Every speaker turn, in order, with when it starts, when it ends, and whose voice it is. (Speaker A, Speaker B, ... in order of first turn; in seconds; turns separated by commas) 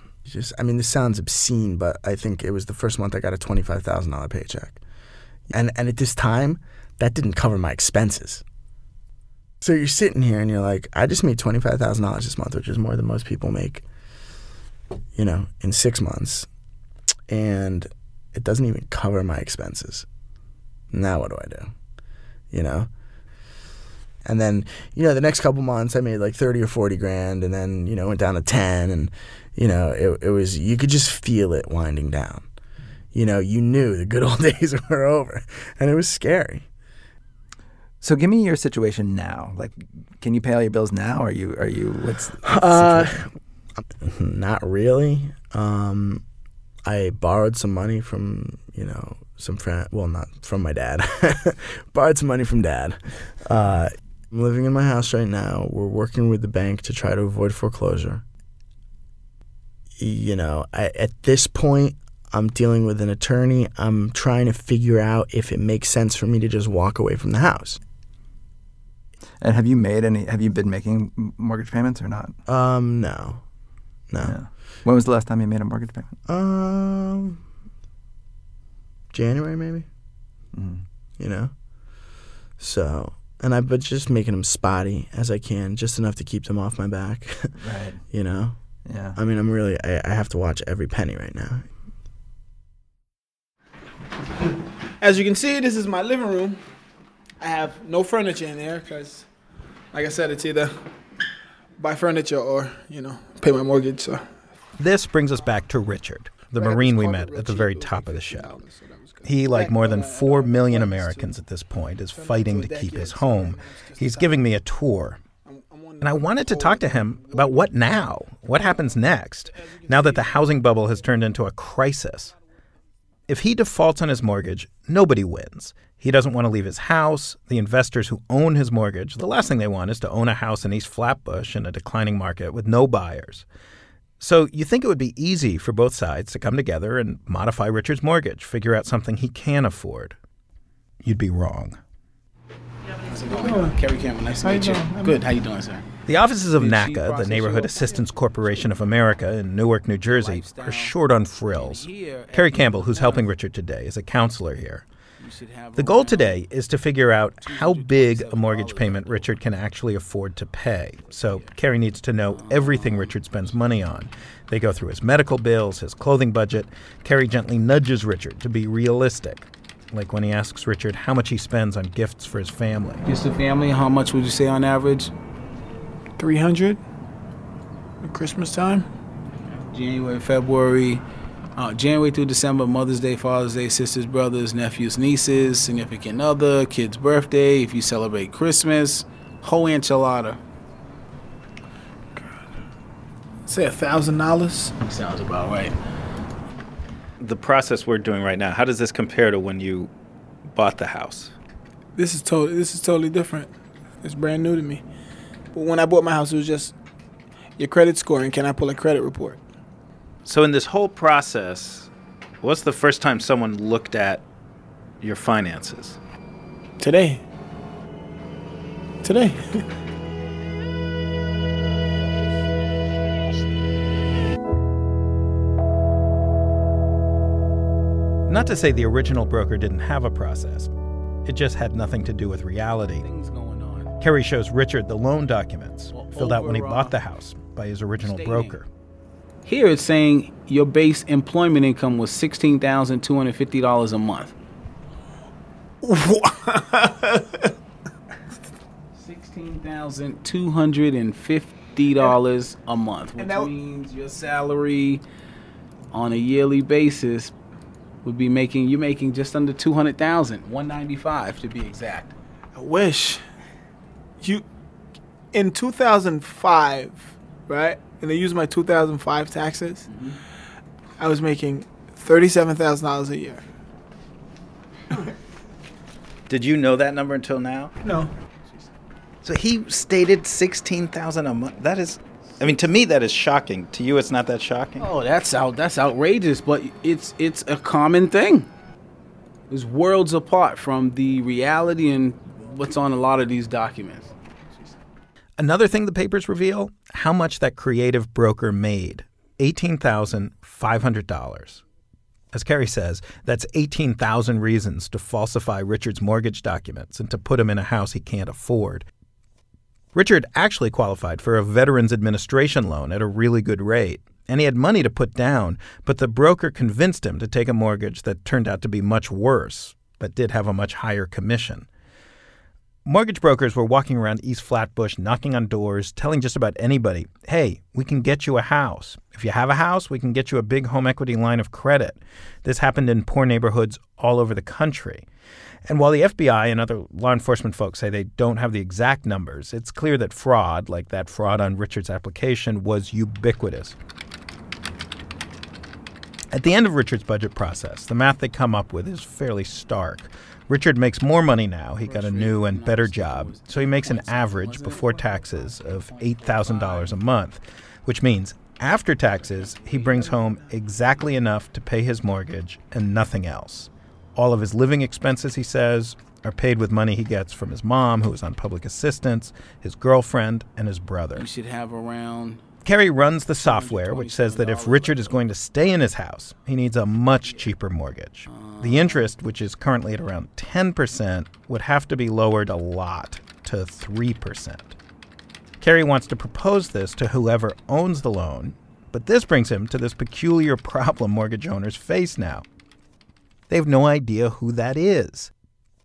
Speaker A: 0.2-4.8, Speaker A: 5.5-8.4, Speaker A: 9.6-13.8, Speaker A: 15.1-16.5, Speaker A: 17.3-20.1, Speaker A: 20.9-21.7, Speaker A: 22.5-22.9, Speaker A: 24.2-32.5, Speaker A: 33.1-36.7, Speaker B: 38.0-43.3, Speaker A: 42.4-43.3, Speaker A: 44.0-46.2, Speaker A: 46.9-58.2, Speaker A: 60.0-67.8, Speaker B: 69.4-72.4, Speaker A: 72.5-73.4, Speaker A: 74.1-74.4, Speaker B: 74.2-76.1, Speaker A: 76.3-77.4, Speaker A: 79.1-79.8, Speaker B: 80.5-80.8, Speaker A: 81.2-81.5, Speaker A: 82.6-87.5, Speaker B: 87.6-88.0, Speaker A: 88.1-88.5, Speaker B: 88.8-89.2, Speaker A: 89.2-91.7, Speaker C: 95.0-96.6, Speaker C: 97.4-99.3, Speaker C: 99.9-100.8, Speaker C: 101.8-104.3, Speaker D: 104.8-108.6, Speaker C: 106.5-111.4, Speaker D: 109.2-115.2, Speaker C: 112.1-114.4, Speaker C: 115.4-117.9, Speaker D: 116.0-122.3, Speaker C: 118.6-118.8, Speaker C: 119.5-120.6, Speaker D: 123.3-133.4, Speaker D: 134.2-140.2, Speaker D: 141.0-141.8, Speaker E: 143.1-145.8, Speaker C: 144.6-144.9, Speaker D: 146.1-154.8, Speaker E: 146.5-148.7, Speaker E: 150.1-150.9, Speaker E: 151.5-153.3, Speaker E: 155.2-156.4, Speaker D: 155.7-173.0, Speaker E: 157.4-159.3, Speaker E: 161.1-161.5, Speaker E: 162.3-163.1, Speaker E: 173.0-175.1, Speaker C: 176.2-176.8, Speaker C: 178.0-178.9, Speaker E: 179.7-181.0, Speaker E: 181.6-190.4, Speaker C: 193.5-194.8, Speaker E: 194.8-195.7, Speaker D: 197.2-199.9, Speaker D: 200.5-201.3, Speaker C: 201.9-204.8, Speaker C: 205.5-206.7, Speaker C: 207.6-209.4, Speaker D: 210.2-214.2, Speaker D: 215.0-216.0, Speaker C: 216.8-217.2, Speaker C: 219.0-219.7, Speaker D: 228.3-230.7, Speaker D: 231.2-233.0, Speaker E: 233.0-233.9, Speaker D: 234.0-238.7, Speaker E: 235.9-237.0, Speaker E: 238.0-238.6, Speaker E: 239.4-244.3, Speaker C: 245.8-247.5, Speaker E: 248.9-255.0, Speaker C: 253.2-253.5, Speaker E: 255.9-257.3, Speaker E: 258.0-262.1, Speaker C: 262.5-263.2, Speaker C: 265.3-269.9, Speaker E: 269.9-270.2, Speaker C: 271.0-273.4, Speaker D: 276.3-277.7, Speaker C: 277.8-278.1, Speaker D: 279.2-284.9, Speaker E: 284.8-288.5, Speaker E: 289.5-294.1, Speaker D: 295.4-301.6, Speaker D: 302.3-308.8, Speaker D: 309.9-321.7, Speaker D: 322.8-335.0, Speaker D: 335.7-343.8, Speaker D: 346.3-371.3, Speaker E: 351.8-356.9, Speaker E: 359.0-360.5, Speaker E: 371.1-372.4, Speaker D: 372.6-384.8, Speaker E: 373.4-375.2, Speaker E: 377.2-377.5, Speaker E: 378.2-379.1, Speaker D: 385.6-392.4, Speaker D: 393.5-395.3